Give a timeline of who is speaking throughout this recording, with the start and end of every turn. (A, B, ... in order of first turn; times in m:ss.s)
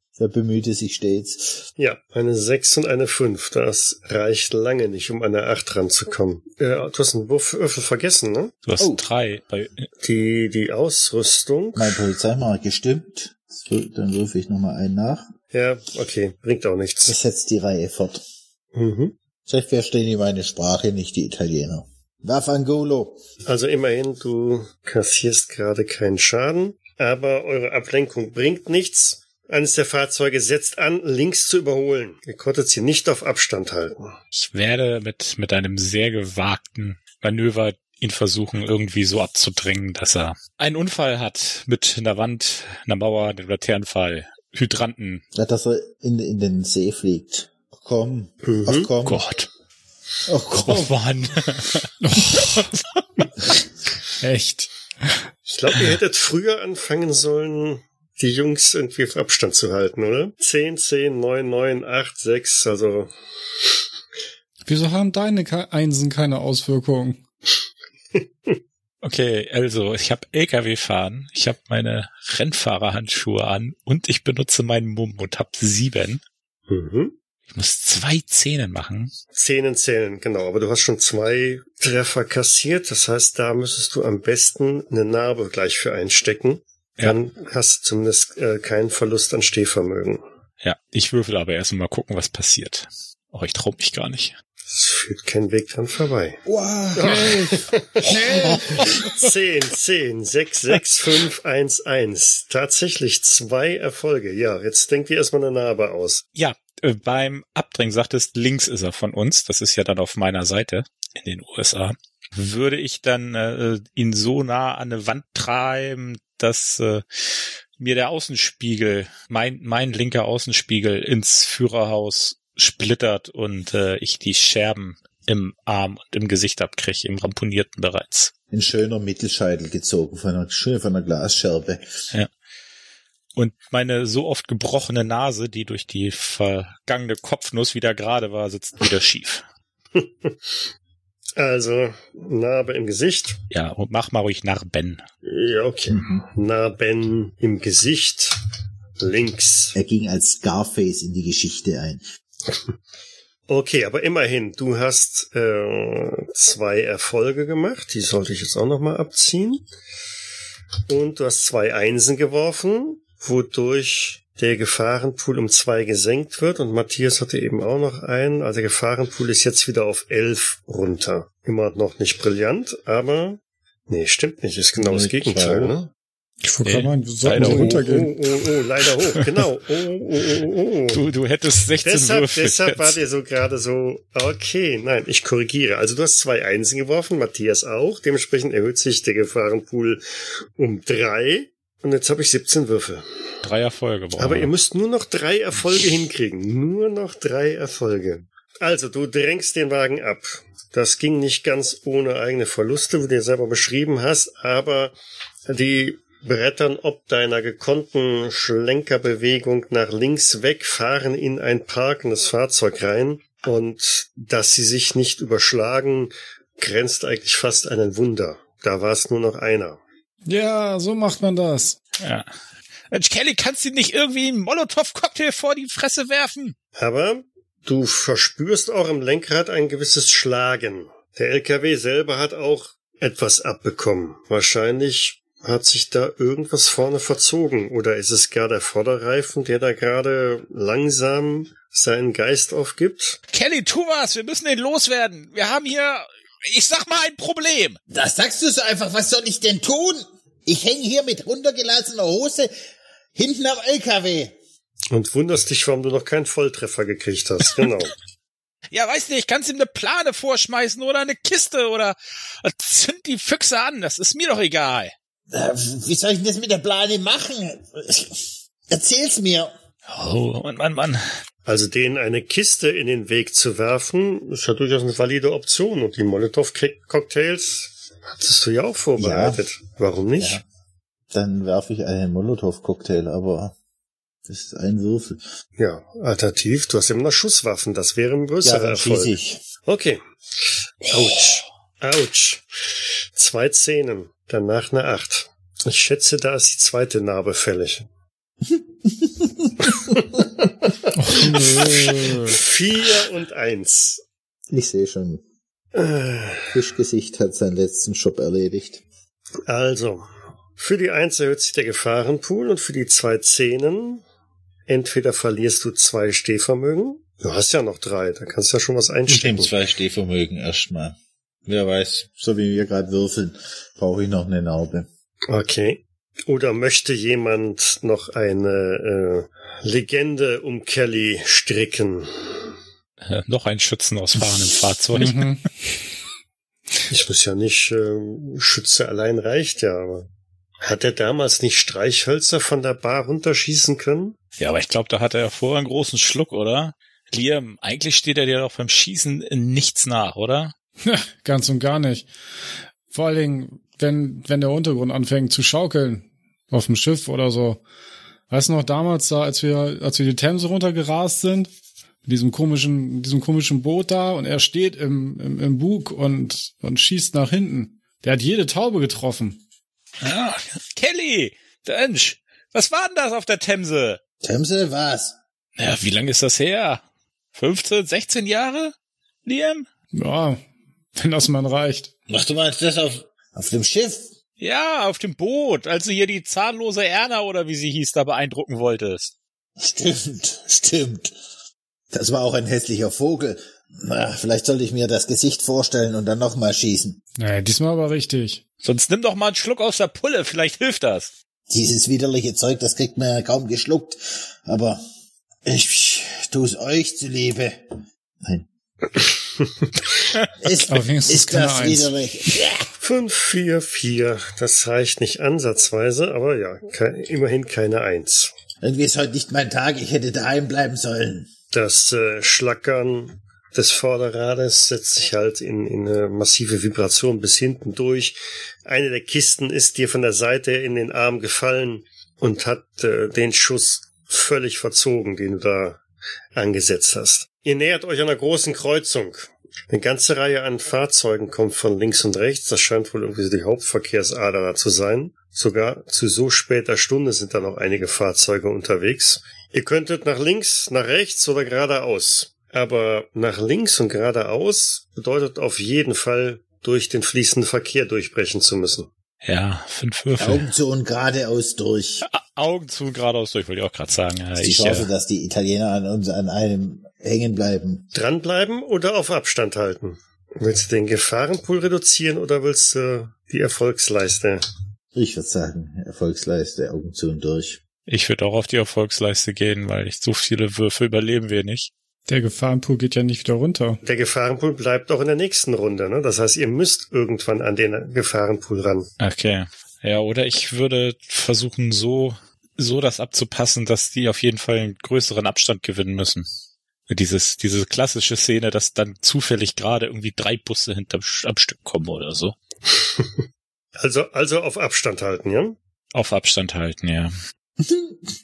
0:00.2-0:01.6 A
0:01.8-0:08.5 B
0:08.6-0:09.9 C
0:10.0-0:12.1 B
0:11.8-0:15.3 A
0:15.5-0:17.2 B
0:17.1-0:18.2 A
0:18.7-0:19.1 B
0:19.4-0:23.2 A
0:23.4-0:34.2 B
0:34.3-0:45.2 C
0:45.3-0:49.2 A
0:48.4-0:48.9 B
0:49.0-0:49.5 C
0:50.3-0:50.9 A
0:50.6-0:53.0 C
0:52.0-0:52.7 D
0:54.2-0:55.2 D
0:55.5-1:03.1 B
1:04.6-1:07.2 D
1:08.1-1:08.6 B
1:09.0-1:16.2 C
1:16.7-1:17.1 B
1:17.5-1:19.1 C
1:19.3-1:30.2 B
1:30.6-1:34.3 C
1:34.7-1:36.4 B
1:36.4-1:38.9 A
1:36.9-1:46.2 B
1:37.1-1:38.6 D
1:46.4-2:08.3 C
2:08.5-2:11.9 A
2:13.4-2:19.4 C
2:20.0-2:20.4 B
2:21.4-2:23.4 B
2:23.5-2:25.0 C
2:25.2-2:28.4 B
2:25.9-2:26.2 A
2:29.0-2:29.7 B
2:29.7-2:32.0 A
2:33.5-2:39.6 B
2:40.9-2:55.9 B
2:54.8-2:55.8 A
2:56.4-2:58.1 D
2:56.6-2:57.8 C
2:57.4-3:01.0 B
3:00.9-3:02.9 C
3:01.8-3:10.0 B
3:10.6-3:13.0 B
3:13.4-3:14.5 C
3:14.2-3:25.0 B
3:25.5-3:39.8 B
3:40.2-3:41.8 D
3:42.0-3:42.3 C
3:42.9-3:46.5 C
3:46.8-4:03.2 B
4:03.3-4:07.8 C
4:07.9-4:12.5 A
4:13.2-4:14.3 A
4:14.9-4:17.9 B
4:18.7-4:24.9 C
4:25.3-4:29.5 A
4:29.9-4:31.0 C
4:31.4-4:40.4 B
4:39.0-4:39.4 A
4:40.2-4:40.4 A
4:41.1-4:43.5 A
4:44.2-4:45.2 A
4:45.6-4:49.1 B
4:48.4-4:49.4 A
4:49.7-4:52.4 B
4:53.1-4:57.9 B
4:58.5-4:59.7 A
4:59.6-5:04.0 B
5:00.9-5:02.4 D
5:04.5-5:05.2 A
5:05.7-5:06.5 B
5:06.5-5:08.8 A
5:09.5-5:10.1 B
5:10.6-5:14.0 B
5:14.7-5:19.5 B
5:19.1-5:24.9 A
5:25.3-5:32.4 B
5:33.0-5:35.3 C
5:34.9-5:35.5 D
5:36.9-5:40.1 B
5:40.6-5:44.2 B
5:44.4-5:50.5 C
5:50.8-5:52.1 D
5:52.9-5:57.6 D
5:58.3-6:01.5 D
6:02.0-6:09.4 D
6:10.0-6:14.0 C
6:14.2-6:15.2 A
6:15.6-6:16.8 C
6:17.3-6:18.7 C
6:19.2-6:19.6 C
6:19.9-6:20.4 D
6:21.0-6:21.9 D
6:22.1-6:24.1 A
6:24.4-6:29.1 C
6:29.6-6:31.1 A
6:31.9-6:37.0 A
6:37.2-6:38.4 D
6:38.6-6:41.1 C
6:41.5-6:44.8 A
6:45.4-6:47.6 A
6:48.2-6:48.5 A
6:49.0-6:49.7 B
6:50.4-6:52.7 A
6:50.7-6:51.9 D
6:52.8-6:58.3 B
6:58.6-7:01.3 A
7:01.5-7:15.8 B
7:16.4-7:38.9 B
7:39.2-7:40.5 C
7:40.2-7:42.0 A
7:42.0-7:44.9 C
7:44.4-7:47.9 A
7:47.9-7:54.4 B
7:54.9-7:57.6 A
7:57.9-8:01.7 C
8:02.1-8:03.8 D
8:03.8-8:08.9 B
8:09.0-8:16.2 C
8:16.9-8:22.3 C
8:23.8-8:25.6 B
8:25.9-8:27.1 C
8:27.6-8:28.0 A